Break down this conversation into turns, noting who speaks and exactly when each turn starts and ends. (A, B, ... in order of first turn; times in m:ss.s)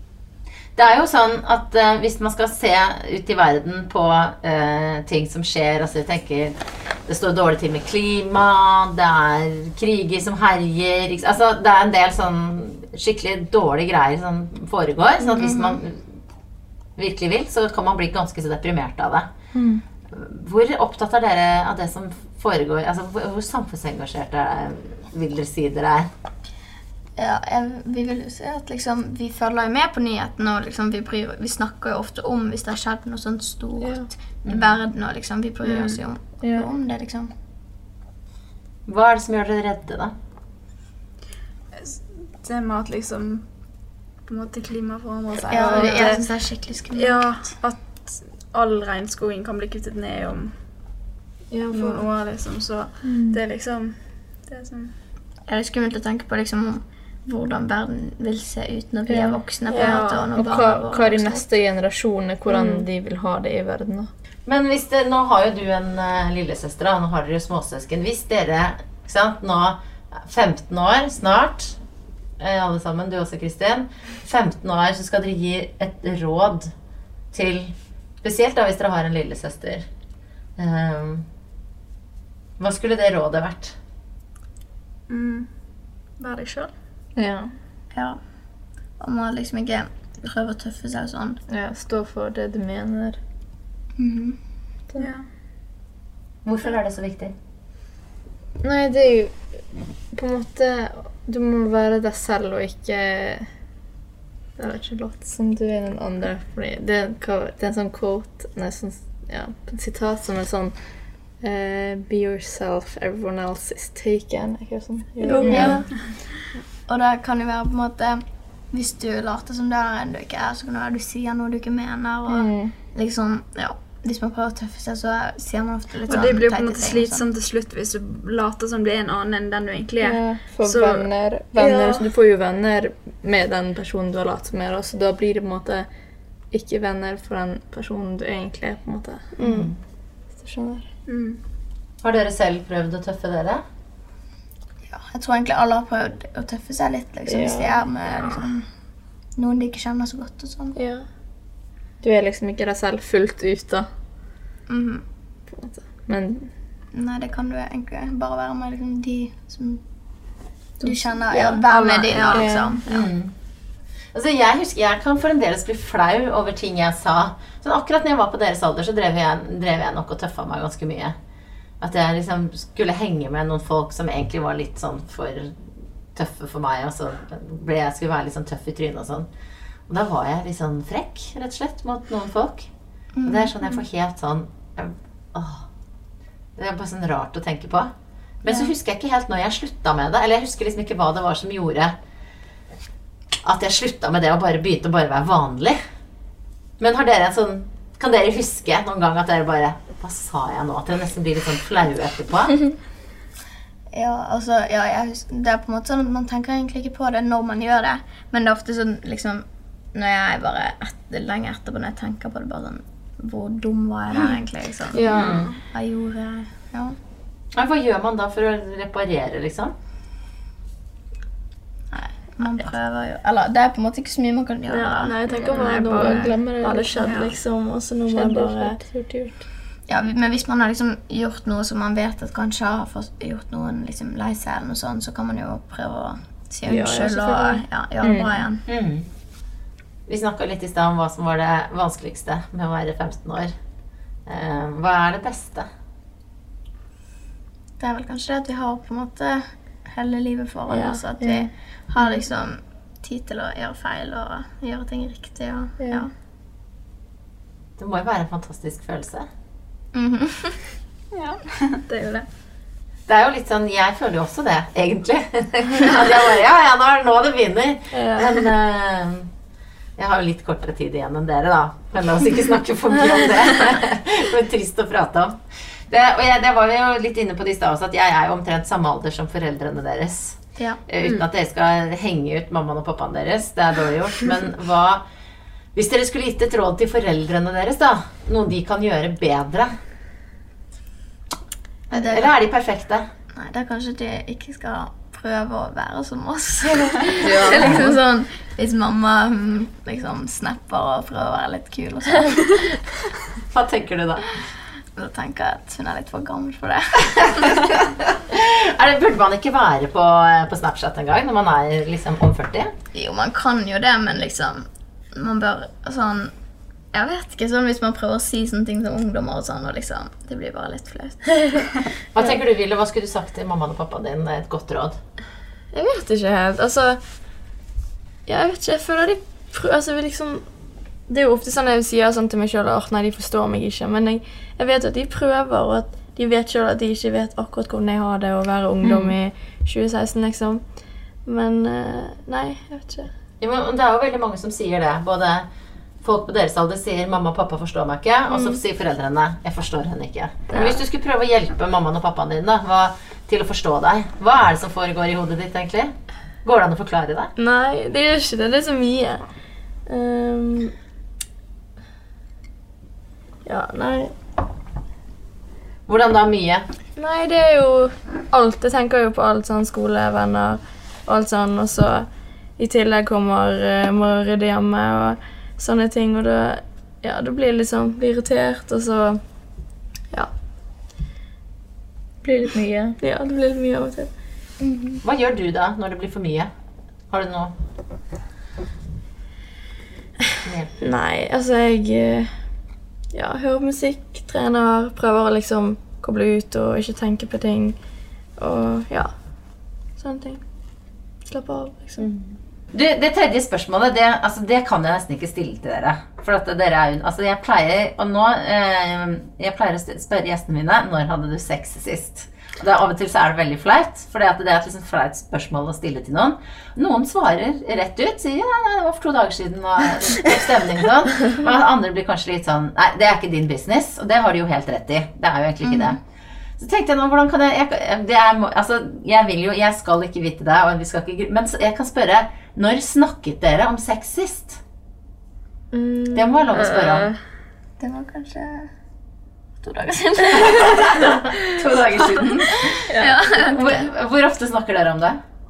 0:00.8-0:16.1 A
0:15.2-0:15.8 B
0:17.0-0:19.3 A
0:19.5-0:19.8 C
0:20.1-0:26.1 A
0:27.2-0:37.3 B
0:33.8-0:34.1 C
0:34.4-0:34.7 A
0:35.6-0:36.0 D
0:36.4-0:36.7 C
0:38.9-0:40.1 A
0:41.8-0:43.6 D
0:44.2-0:46.3 D
0:45.5-0:47.5 B
0:45.8-0:46.1 E
0:46.9-0:50.6 D
0:51.5-0:52.1 E
0:51.7-0:54.9 D
0:53.0-0:53.4 C
0:55.5-1:01.4 B
0:59.1-0:59.4 C
0:59.7-1:00.1 E
0:59.7-1:00.3 D
1:00.3-1:04.1 C
1:02.5-1:02.8 E
1:04.4-1:11.8 A
1:12.4-1:16.7 A
1:17.3-1:19.8 A
1:20.6-1:21.2 A
1:22.6-1:23.8 A
1:25.1-1:25.5 D
1:26.2-1:26.7 D
1:27.2-1:27.5 C
1:27.9-1:28.3 B
1:29.0-1:31.4 B
1:31.5-1:33.2 C
1:34.0-1:34.4 B
1:35.0-1:35.3 D
1:36.4-1:37.3 A
1:38.6-1:39.5 C
1:40.1-1:43.5 C
1:44.6-1:55.9 C
1:55.2-1:55.9 E
1:55.4-2:07.2 B
1:55.4-1:55.8 A
2:02.3-2:02.8 C
2:06.1-2:11.1 D
2:10.0-2:15.9 C
2:11.5-2:12.1 E
2:16.5-2:19.3 C
2:19.3-2:19.7 E
2:19.4-2:19.8 A
2:20.4-2:20.9 C
2:21.1-2:21.4 D
2:22.0-2:23.6 A
2:24.9-2:28.7 B
2:27.2-2:27.8 E
2:29.4-2:30.8 B
2:30.8-2:31.0 E
2:32.0-2:33.9 C
2:34.7-2:35.0 B
2:35.5-2:36.5 C
2:36.9-2:39.8 B
2:40.8-2:43.1 B
2:40.8-2:41.5 C
2:41.3-2:41.6 E
2:41.7-2:42.6 D
2:42.3-2:42.8 C
2:42.9-2:43.3 A
2:44.1-2:51.1 A
2:51.8-2:59.3 A
2:59.9-3:02.7 A
3:03.1-3:03.8 B
3:03.2-3:05.7 A
3:06.6-3:07.9 A
3:08.4-3:11.9 A
3:08.4-3:08.7 B
3:13.4-3:15.8 A
3:16.8-3:22.6 A
3:23.9-3:37.0 B
3:34.9-3:35.2 E
3:34.9-3:35.5 C
3:35.0-3:35.6 D
3:35.2-3:35.5 A
3:37.5-3:39.7 A
3:41.9-3:45.2 B
3:44.7-3:48.8 E
3:45.3-3:46.4 D
3:45.9-3:47.2 C
3:47.0-3:47.3 D
3:48.1-3:49.4 C
3:49.8-3:58.6 B
3:56.7-3:57.6 E
3:58.0-3:58.4 C
3:58.6-3:59.1 A
4:00.1-4:03.5 A
4:04.2-4:05.7 A
4:07.8-4:16.1 B
4:10.7-4:11.0 E
4:11.2-4:12.2 C
4:17.8-4:19.3 A
4:19.9-4:20.6 B
4:21.1-4:22.3 D
4:23.1-4:29.3 A
4:27.9-4:28.5 E
4:30.0-4:45.0 A
4:45.7-4:49.7 A
4:51.9-4:53.1 A
4:51.9-4:52.3 B
4:53.3-5:02.8 B
4:57.2-4:57.9 C
4:57.6-4:57.9 A
5:03.5-5:04.4 A
5:04.9-5:07.7 B
5:08.3-5:12.7 A
5:12.9-5:16.3 B
5:16.9-5:21.9 B
5:22.1-5:25.0 A
5:25.7-5:27.0 E
5:28.2-5:30.5 E
5:31.1-5:40.6 E
5:38.8-5:39.1 C
5:41.2-5:43.1 E
5:43.4-5:45.5 A
5:46.0-5:57.3 A
5:48.3-5:48.6 E
5:50.5-5:50.8 E
5:57.4-5:59.2 E
5:59.8-6:00.7 E
6:03.4-6:04.1 E
6:05.9-6:06.7 A
6:07.0-6:19.2 E
6:22.2-6:23.0 C
6:23.0-6:24.1 E
6:24.6-6:25.0 B
6:25.0-6:26.5 A
6:27.1-6:27.5 A
6:30.4-6:30.7 A
6:30.8-6:32.4 E
6:33.1-6:37.8 E
6:38.4-6:39.3 E
6:39.9-6:40.4 E
6:41.2-6:42.1 E
6:42.0-7:06.0 A
7:05.6-7:06.0 B
7:06.6-7:14.6 A
7:15.7-7:16.4 E
7:16.1-7:17.1 A
7:16.5-7:17.2 D
7:17.8-7:18.7 B
7:19.6-7:21.1 B
7:20.4-7:25.2 A
7:22.7-7:23.8 B
7:22.9-7:23.2 C